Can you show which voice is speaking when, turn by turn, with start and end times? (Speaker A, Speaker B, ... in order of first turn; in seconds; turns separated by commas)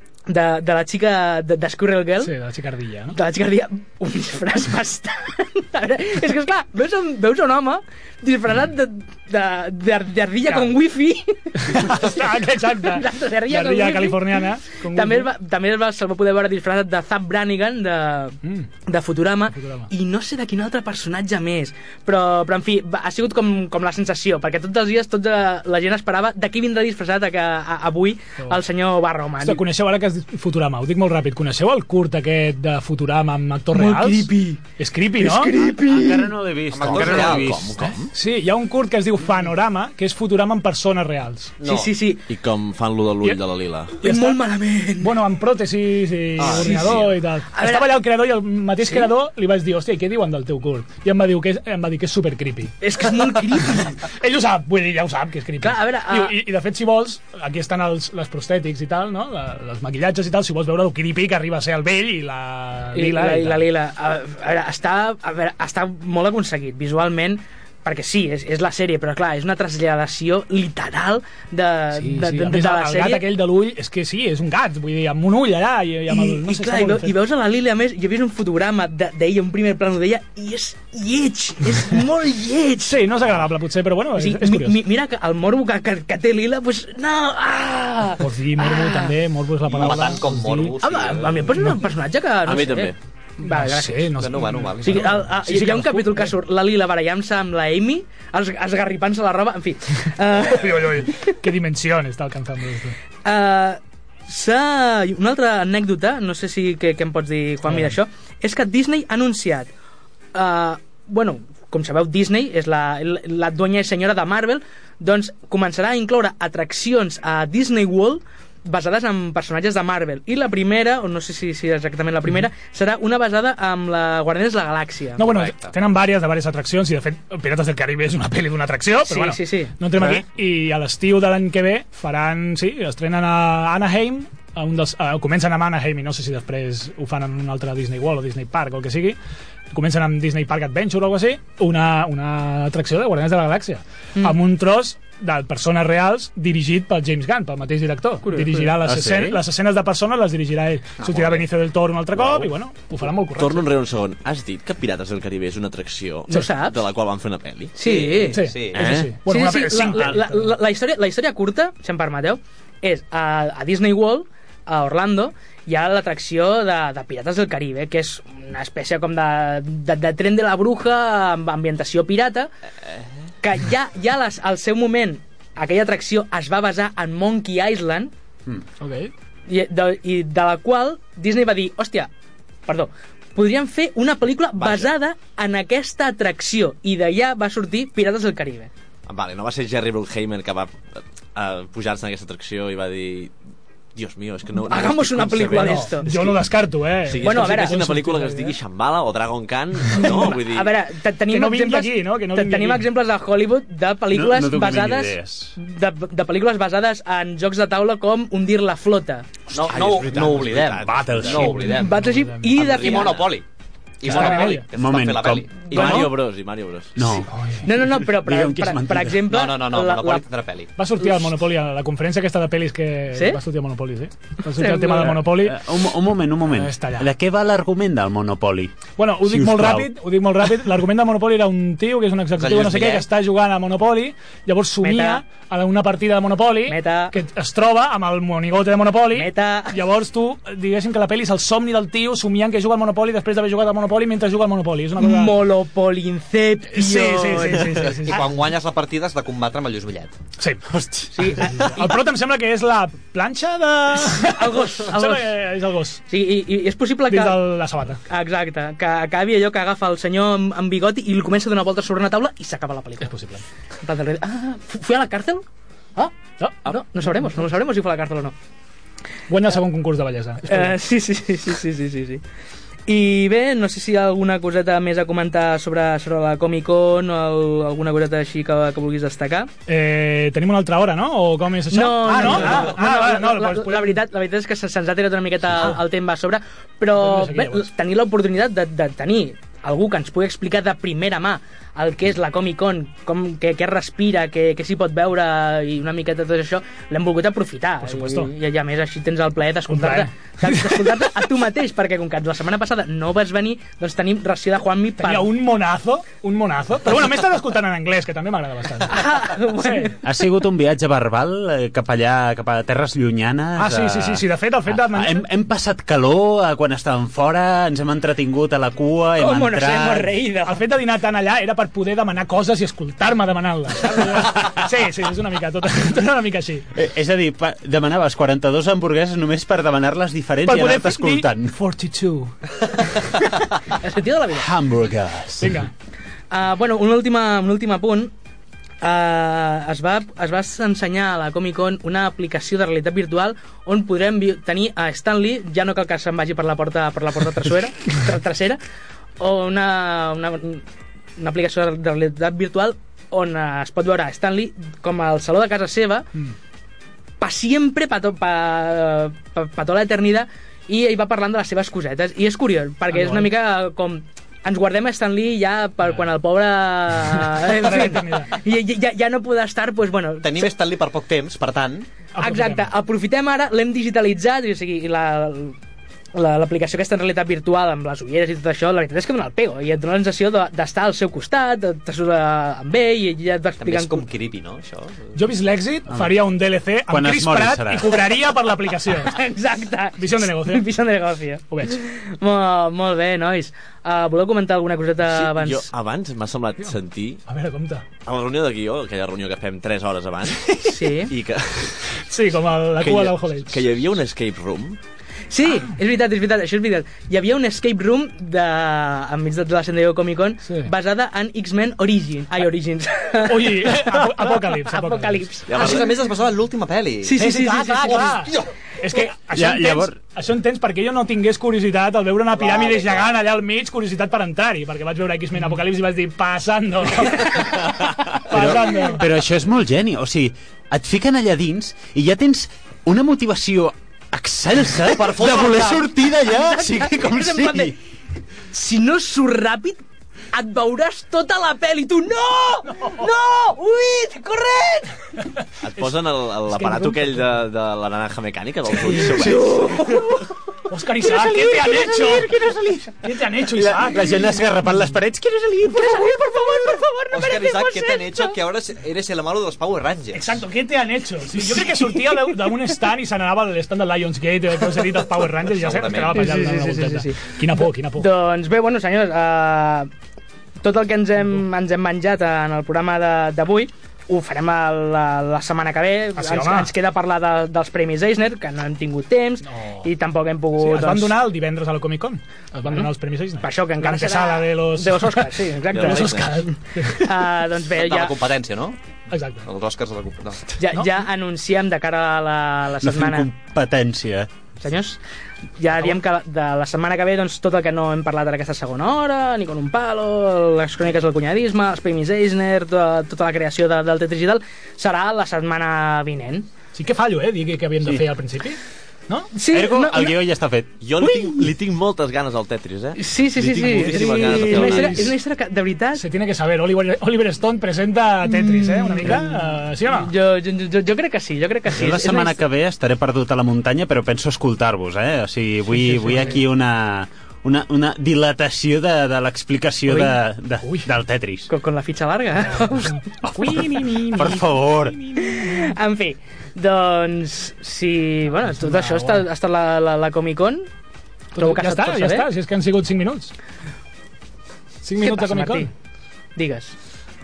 Speaker A: 0.3-2.3, Speaker B: 2.2-3.2, Speaker A: 3.1-29.6, Speaker B: 10.5-10.7, Speaker B: 11.6-15.3, Speaker B: 18.4-18.7, Speaker B: 19.5-19.9, Speaker B: 29.4-35.5, Speaker A: 33.7-34.6, Speaker A: 35.1-36.3, Speaker C: 35.6-37.9, Speaker D: 36.7-37.6, Speaker E: 36.8-38.1, Speaker B: 38.1-41.5, Speaker D: 41.6-41.9, Speaker A: 41.6-42.2, Speaker E: 42.3-43.9, Speaker A: 44.0-45.2, Speaker B: 44.0-44.4, Speaker B: 45.0-63.6, Speaker E: 46.4-46.8, Speaker A: 46.5-47.9, Speaker D: 46.6-47.1, Speaker A: 52.8-54.0, Speaker A: 55.6-56.4, Speaker A: 62.9-73.3, Speaker B: 71.9-77.2, Speaker A: 76.1-83.0, Speaker B: 82.8-84.8, Speaker A: 84.2-89.1, Speaker B: 88.2-90.7, Speaker D: 89.7-91.5, Speaker A: 90.8-94.1, Speaker B: 91.5-91.8, Speaker E: 92.5-93.0, Speaker B: 93.4-96.3, Speaker D: 94.2-95.2, Speaker A: 94.8-101.3, Speaker B: 100.4-103.0, Speaker A: 103.2-109.7, Speaker B: 107.7-107.9, Speaker A: 110.3-125.3, Speaker B: 125.2-139.2, Speaker D: 125.3-125.7, Speaker A: 129.1-130.2, Speaker B: 139.7-153.7, Speaker A: 148.2-148.8, Speaker C: 148.8-149.4, Speaker D: 151.0-151.4, Speaker E: 153.3-157.8, Speaker A: 156.3-156.8, Speaker A: 157.8-158.5, Speaker D: 157.8-158.9, Speaker B: 158.3-160.5, Speaker E: 158.7-159.1, Speaker A: 159.3-172.5, Speaker A: 173.4-178.1, Speaker B: 178.8-179.1, Speaker A: 179.5-182.1, Speaker A: 182.7-188.7, Speaker E: 184.6-184.9, Speaker E: 189.1-193.3, Speaker E: 193.9-196.2, Speaker A: 194.7-196.4, Speaker B: 195.4-198.6, Speaker E: 197.1-200.7, Speaker A: 197.2-197.8, Speaker A: 199.9-209.3, Speaker B: 201.3-202.9, Speaker C: 204.1-205.6, Speaker D: 209.5-213.4, Speaker E: 209.6-211.6, Speaker C: 210.8-211.7, Speaker B: 211.4-212.5, Speaker A: 211.6-213.2, Speaker E: 212.9-213.2, Speaker D: 214.0-216.1, Speaker B: 214.1-214.7, Speaker A: 214.1-214.5, Speaker C: 214.1-216.1, Speaker E: 215.7-216.9, Speaker C: 216.9-217.3, Speaker B: 217.1-217.7, Speaker A: 217.6-220.2, Speaker C: 218.0-219.2, Speaker D: 219.3-220.7, Speaker B: 220.8-225.6, Speaker A: 223.1-223.4, Speaker A: 224.6-225.2, Speaker C: 225.2-229.9, Speaker B: 226.5-227.1, Speaker B: 228.9-245.4, Speaker D: 232.4-233.1, Speaker A: 234.8-235.2, Speaker A: 236.7-237.2, Speaker A: 239.1-239.8, Speaker A: 245.0-248.1, Speaker B: 246.7-248.3, Speaker D: 248.0-250.2, Speaker B: 250.4-250.6, Speaker C: 250.7-251.1, Speaker A: 251.1-252.0, Speaker B: 251.2-256.0, Speaker A: 254.0-255.3, Speaker A: 256.1-257.4, Speaker B: 257.1-258.0, Speaker A: 258.1-263.1, Speaker B: 263.0-263.4, Speaker A: 263.8-265.4, Speaker A: 265.9-268.3, Speaker B: 266.4-266.8, Speaker B: 269.3-270.8, Speaker A: 270.5-272.2, Speaker A: 272.9-279.5, Speaker B: 279.7-284.0, Speaker A: 281.7-305.3, Speaker B: 287.0-287.7, Speaker B: 297.8-298.3, Speaker B: 299.7-301.1, Speaker B: 305.0-309.9, Speaker A: 308.9-310.0, Speaker C: 310.0-320.2, Speaker B: 313.6-315.2, Speaker A: 319.2-320.6, Speaker B: 320.4-326.7, Speaker C: 326.7-331.6, Speaker B: 330.4-332.3, Speaker B: 333.0-333.2, Speaker A: 333.8-334.5, Speaker C: 334.3-335.6, Speaker B: 335.4-335.7, Speaker A: 336.3-338.1, Speaker A: 338.8-348.6, Speaker A: 349.2-350.6, Speaker A: 351.2-356.1, Speaker A: 357.2-370.5, Speaker B: 362.9-363.3, Speaker B: 367.3-368.4, Speaker D: 370.2-371.9, Speaker B: 372.1-372.7, Speaker A: 372.2-375.6, Speaker A: 376.1-384.1, Speaker D: 383.6-385.1, Speaker B: 385.1-389.2, Speaker C: 386.9-388.0, Speaker A: 388.9-395.7, Speaker B: 390.0-390.7, Speaker B: 391.5-391.8, Speaker E: 395.1-397.2, Speaker B: 397.3-397.8, Speaker E: 398.1-402.0, Speaker A: 400.6-401.1, Speaker B: 402.0-403.6, Speaker E: 402.8-404.8, Speaker A: 405.3-415.9, Speaker B: 413.3-415.3, Speaker E: 415.5-416.0, Speaker D: 415.6-417.2, Speaker A: 417.0-418.3, Speaker B: 417.1-429.1, Speaker D: 417.9-418.5, Speaker C: 419.3-420.0, Speaker C: 428.3-437.8, Speaker D: 434.9-435.9, Speaker A: 436.3-437.8, Speaker A: 438.5-444.9, Speaker B: 442.8-443.1, Speaker E: 445.6-449.7, Speaker B: 446.5-447.1, Speaker B: 448.9-449.4, Speaker A: 449.0-450.3, Speaker B: 450.7-454.2, Speaker A: 451.0-451.8, Speaker C: 451.1-452.9, Speaker C: 453.4-457.1, Speaker B: 455.9-458.3, Speaker A: 455.9-456.3, Speaker D: 457.1-460.4, Speaker B: 460.1-468.1, Speaker A: 461.7-462.1, Speaker D: 465.4-466.2, Speaker A: 466.1-469.9, Speaker A: 470.6-481.2, Speaker B: 476.1-476.7, Speaker B: 479.5-479.9, Speaker B: 480.6-487.1, Speaker A: 483.4-488.2, Speaker E: 485.7-486.3, Speaker D: 487.7-488.8, Speaker B: 489.1-489.5, Speaker D: 489.4-490.6, Speaker A: 490.6-493.3, Speaker C: 492.8-494.3, Speaker A: 494.6-495.0, Speaker A: 495.6-506.5, Speaker B: 506.7-509.3, Speaker A: 509.3-510.2, Speaker C: 509.5-510.7, Speaker E: 510.8-515.2, Speaker A: 511.0-511.4, Speaker A: 513.0-516.0, Speaker B: 514.0-515.2, Speaker B: 516.0-520.1, Speaker A: 518.3-522.4, Speaker C: 521.7-531.5, Speaker B: 525.7-526.4, Speaker B: 530.6-530.9, Speaker A: 531.5-533.0, Speaker B: 533.3-535.7, Speaker C: 533.3-535.1, Speaker A: 535.1-540.7, Speaker B: 538.4-539.3, Speaker B: 541.3-543.3, Speaker A: 541.4-542.3, Speaker B: 544.8-545.7, Speaker A: 545.0-545.7, Speaker A: 546.4-546.7